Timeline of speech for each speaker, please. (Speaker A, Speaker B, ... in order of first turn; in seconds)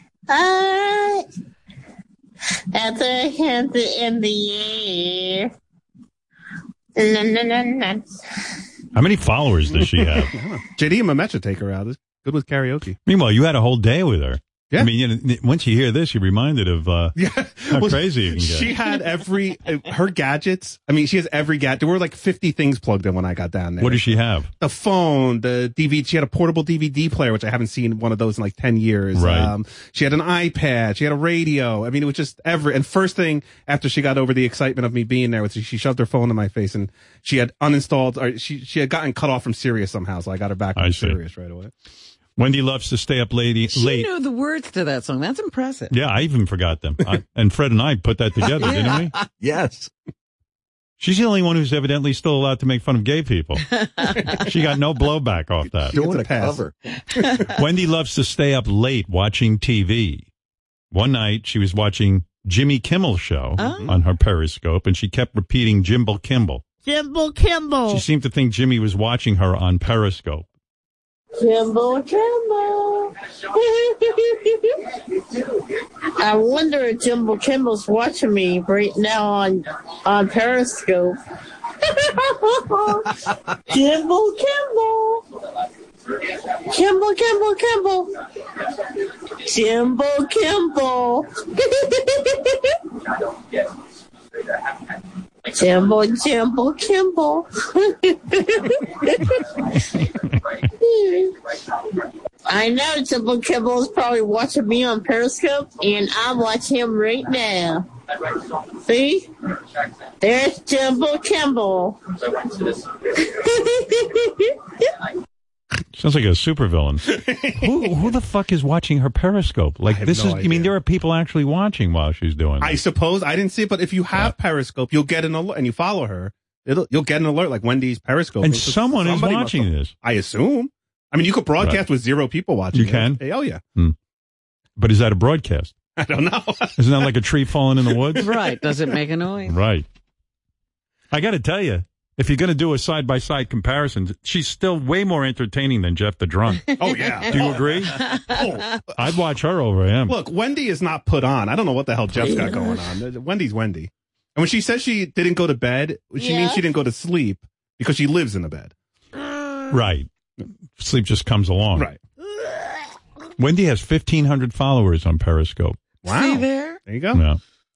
Speaker A: 0.3-1.2, 2.7-5.5, 7.0-8.6, 66.8-68.0, 71.4-81.2, 81.8-83.2, 83.7-85.2, 86.1-93.7, 95.5-109.3, 110.2-115.0, 152.4-152.8, 156.2-156.6
Speaker B: 8.9-10.3, 13.1-18.8, 23.8-24.5, 29.1-29.5, 40.8-41.2, 42.4-44.1, 45.9-49.1, 51.0-53.7, 54.3-56.0, 57.5-60.3, 60.9-66.6, 67.9-70.5, 115.9-122.8, 128.4-129.9, 132.7-133.2, 134.8-135.7, 136.8-138.3, 139.5-139.8, 141.1-148.1, 148.9-150.2, 159.7-160.1, 160.8-161.9, 163.4-165.8, 167.1-167.4
Speaker C: 9.8-13.0, 17.1-41.7, 55.9-56.6, 57.2-57.5, 63.6-63.9, 117.1-117.7, 119.9-120.7, 122.6-133.6, 136.0-137.1, 146.8-148.9, 150.1-158.7, 166.0-167.2
Speaker D: 43.7-45.9, 53.8-54.4, 63.6-63.9, 138.2-139.6, 147.9-148.4, 166.0-166.8
Speaker E: 48.7-49.9, 55.9-56.7